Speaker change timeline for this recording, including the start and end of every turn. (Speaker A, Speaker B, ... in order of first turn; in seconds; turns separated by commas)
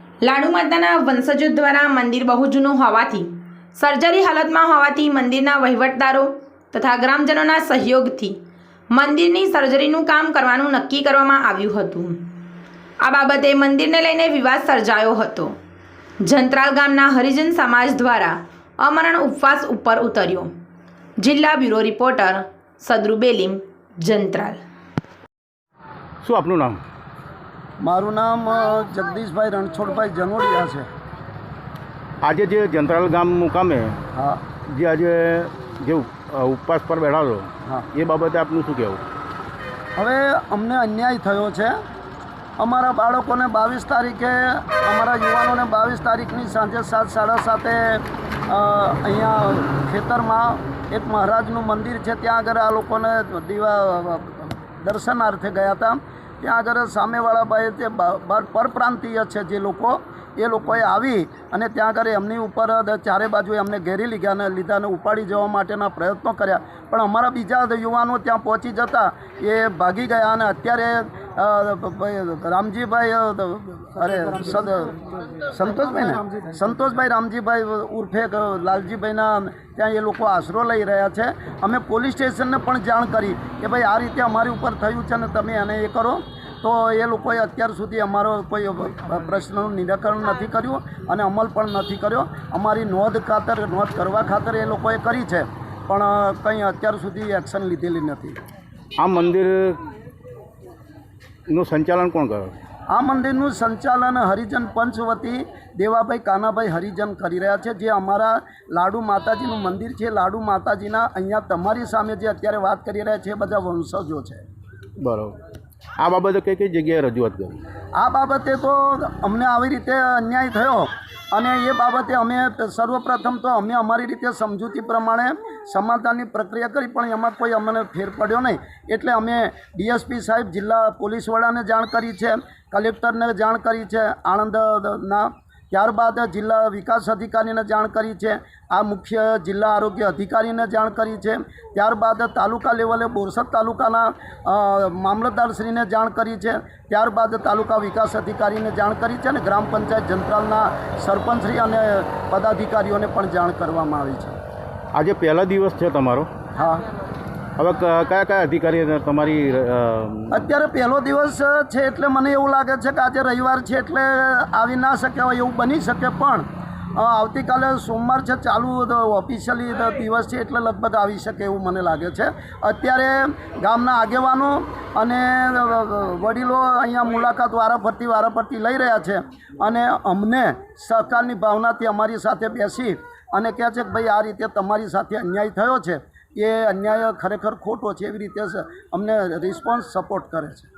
Speaker A: 0.2-8.4, Speaker A: 8.9-12.3, Speaker A: 13.0-15.6, Speaker A: 16.2-20.5, Speaker A: 21.2-24.6, Speaker B: 26.2-26.8, Speaker C: 27.8-30.9, Speaker B: 32.2-34.0, Speaker C: 34.1-34.4, Speaker B: 34.6-39.0, Speaker C: 40.0-41.7, Speaker C: 42.6-75.0, Speaker C: 75.5-98.4, Speaker B: 99.0-99.8, Speaker B: 101.5-102.5, Speaker C: 102.9-114.4, Speaker B: 115.0-115.4, Speaker B: 116.0-117.6, Speaker C: 117.9-154.4, Speaker B: 154.9-156.3, Speaker C: 156.5-156.8, Speaker B: 157.6-160.4, Speaker C: 160.3-190.7